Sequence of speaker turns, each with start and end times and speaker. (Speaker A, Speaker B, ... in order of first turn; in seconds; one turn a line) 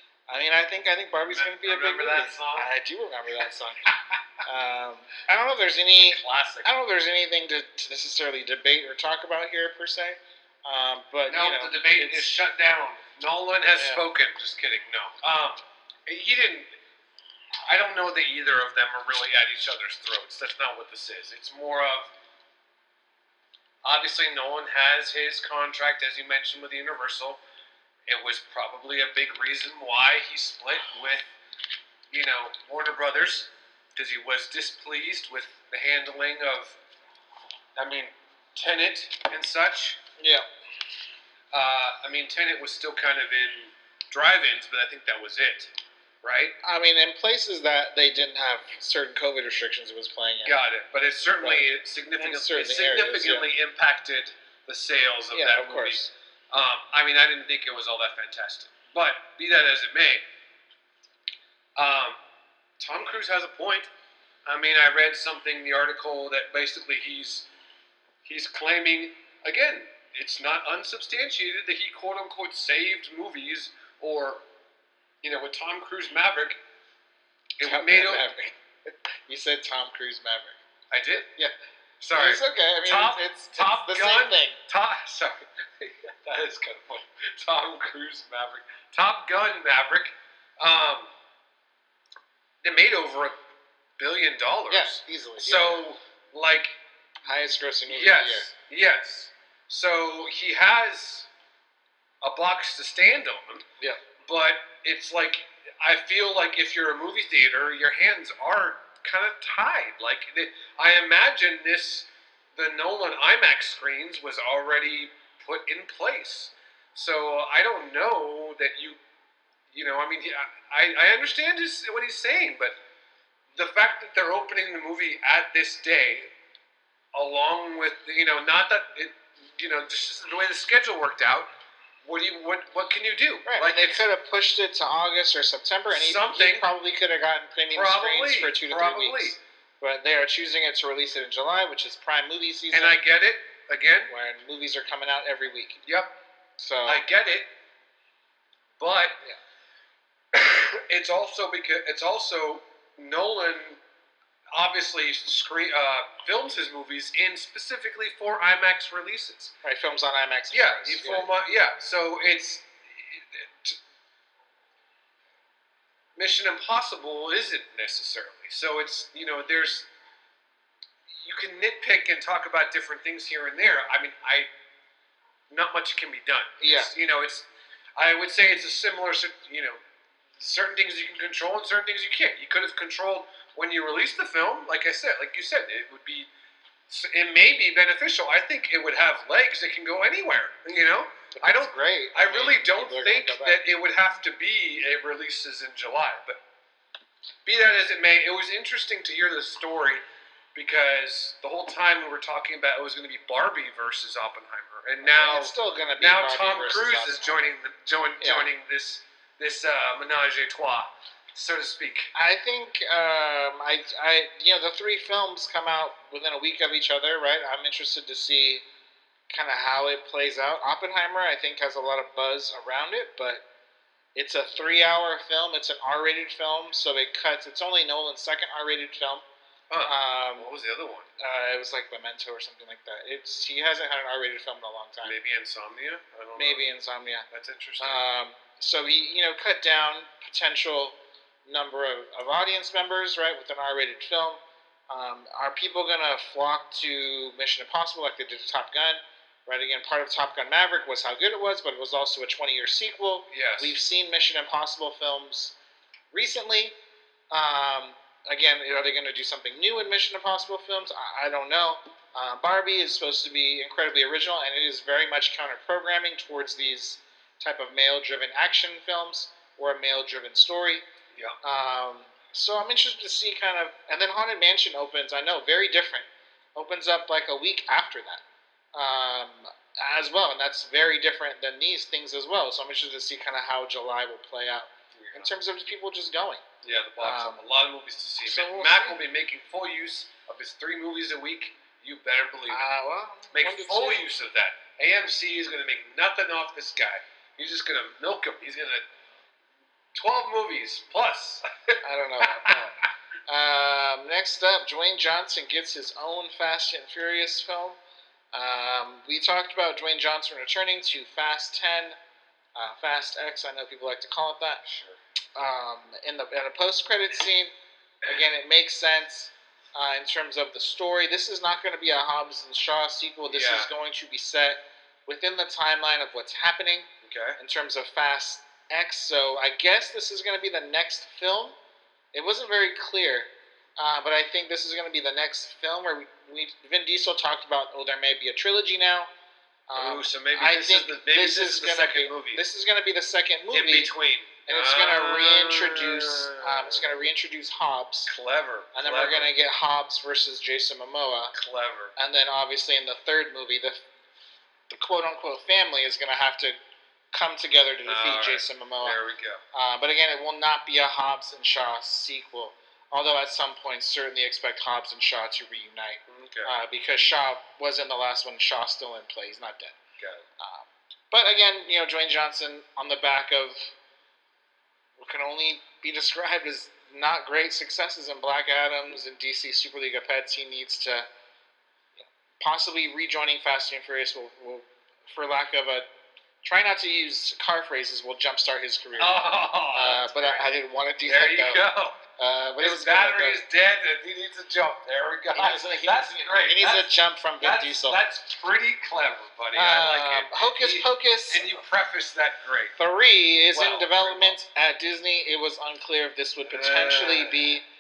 Speaker A: 0.3-3.9
Speaker B: 1.2-2.7
Speaker A: 4.4-12.3
Speaker B: 5.9-6.7
Speaker B: 11.3-16.7
Speaker A: 13.8-14.0
Speaker B: 17.7-22.1
Speaker B: 23.8-27.4
Speaker B: 28.1-31.3
Speaker B: 32.1-36.8
Speaker B: 37.8-40.0
Speaker A: 40.2-40.5
Speaker B: 41.5-45.7
Speaker B: 46.2-46.5
Speaker A: 46.6-50.6
Speaker B: 50.5-60.2
Speaker A: 52.2-53.5
Speaker A: 55.3-56.1
Speaker B: 61.8-62.2
Speaker B: 62.8-63.9
Speaker B: 64.5-67.5
Speaker B: 68.2-74.4
Speaker B: 75.2-76.6
Speaker B: 77.6-78.2
Speaker A: 77.6-78.6
Speaker A: 79.3-80.5
Speaker B: 80.9-81.3
Speaker B: 82.0-91.1
Speaker A: 82.1-84.6
Speaker B: 92.6-93.4
Speaker B: 94.0-96.8
Speaker A: 94.7-95.8
Speaker A: 97.3-98.5
Speaker B: 97.9-101.3
Speaker B: 102.2-103.7
Speaker B: 104.2-119.0
Speaker B: 119.7-122.8
Speaker B: 123.5-126.3
Speaker B: 127.1-131.5
Speaker B: 132.0-134.1
Speaker A: 133.5-143.0
Speaker B: 135.9-136.7
Speaker B: 137.7-139.4
Speaker B: 142.7-144.1
Speaker A: 144.1-145.8
Speaker B: 145.8-146.1
Speaker A: 146.6-147.0
Speaker B: 146.9-147.5
Speaker B: 148.8-149.2
Speaker B: 150.3-153.8
Speaker B: 154.5-159.5
Speaker A: 159.6-161.3
Speaker B: 160.5-163.8
Speaker B: 166.2-169.9
Speaker B: 171.1-174.5
Speaker B: 175.5-177.5
Speaker A: 176.6-176.9
Speaker B: 178.0-179.8
Speaker B: 180.4-186.3
Speaker B: 186.9-196.4
Speaker A: 191.3-193.6
Speaker B: 197.4-200.0
Speaker B: 200.6-212.1
Speaker A: 205.0-207.5
Speaker A: 208.2-208.5
Speaker A: 212.1-218.6
Speaker A: 219.3-223.4
Speaker A: 224.2-229.2
Speaker B: 229.7-231.1
Speaker A: 229.8-230.5
Speaker A: 231.2-235.2
Speaker B: 235.0-236.6
Speaker A: 236.4-237.3
Speaker B: 237.3-238.0
Speaker A: 237.8-240.9
Speaker A: 241.5-255.6
Speaker B: 253.3-253.8
Speaker A: 256.1-256.8
Speaker A: 257.3-270.9
Speaker A: 271.4-278.2
Speaker A: 278.7-286.4
Speaker B: 284.9-285.3
Speaker B: 286.6-292.6
Speaker A: 287.0-287.4
Speaker A: 288.2-289.0
Speaker A: 292.5-294.0
Speaker B: 293.3-298.9
Speaker B: 299.9-302.6
Speaker A: 301.8-307.8
Speaker A: 308.3-312.0
Speaker A: 312.6-314.6
Speaker B: 314.6-315.0
Speaker A: 315.4-317.5
Speaker A: 318.1-331.6
Speaker B: 323.3-323.7
Speaker B: 327.0-327.4
Speaker A: 332.1-339.1
Speaker A: 339.7-343.9
Speaker B: 339.8-342.4
Speaker B: 343.5-346.9
Speaker A: 344.5-348.1
Speaker B: 348.1-349.3
Speaker A: 348.7-351.3
Speaker B: 351.3-351.9
Speaker A: 352.0-353.8
Speaker A: 354.7-356.6
Speaker A: 357.1-359.0
Speaker B: 357.9-359.4
Speaker A: 359.5-369.8
Speaker B: 366.1-366.6
Speaker B: 370.0-370.2
Speaker A: 370.4-373.7
Speaker A: 375.0-381.1
Speaker A: 382.0-385.9
Speaker A: 386.4-389.2
Speaker B: 389.0-390.5
Speaker A: 389.7-391.6
Speaker B: 391.1-392.0
Speaker A: 392.2-393.4
Speaker B: 392.6-402.8
Speaker A: 395.3-398.0
Speaker A: 399.6-401.5
Speaker A: 402.8-407.6
Speaker B: 403.5-404.4
Speaker B: 406.4-407.6